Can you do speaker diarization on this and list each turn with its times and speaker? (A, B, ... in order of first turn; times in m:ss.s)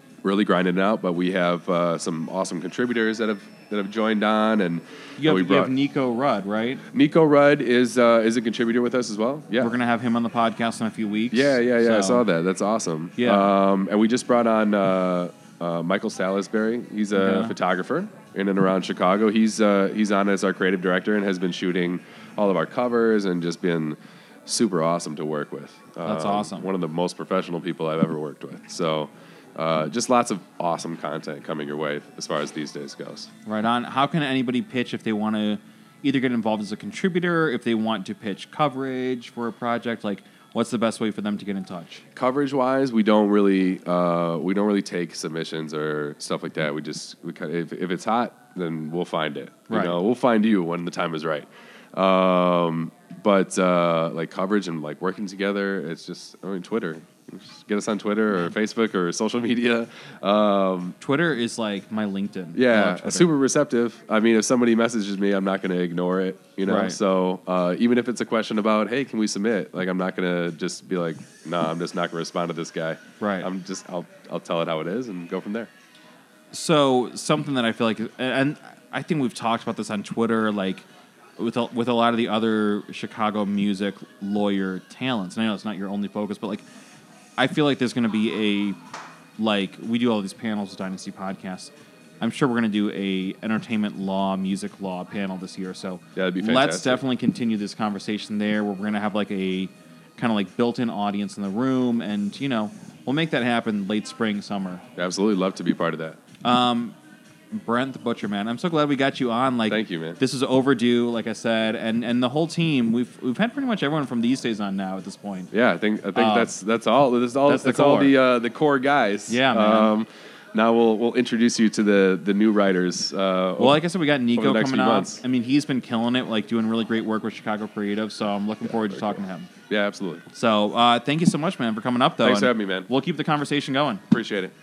0:00.2-0:05.7 A
0:05.2-0:06.8 B
0:06.9-0:09.7 A
0:09.6-0:12.3 B
0:11.3-0:33.3 A
0:13.2-0:13.5 B
0:17.2-0:17.5 B
0:26.0-0:26.7 B
0:33.5-0:42.0 B
0:42.2-1:01.0 A
0:49.7-0:50.0 B
1:01.0-1:03.3 B
1:02.6-1:15.7 A
1:06.6-1:07.0 B
1:13.2-1:13.5 B
1:16.5-1:20.9 B
1:21.4-1:26.6 B
1:27.4-1:28.8 B
1:29.4-1:44.8 B
1:36.2-1:37.0 A
1:45.0-1:46.2 A
1:46.4-1:47.0 B
1:47.5-1:55.5 B
1:49.7-1:50.2 A
1:55.5-2:03.8 A
1:56.2-1:56.5 B
1:57.4-1:58.2 B
1:59.3-1:59.9 B
2:03.6-2:09.5 B
2:04.4-2:05.2 A
2:08.7-2:09.2 A
2:09.7-2:10.2 A
2:10.3-2:14.0 B
2:12.2-2:12.9 A
2:14.1-2:14.5 A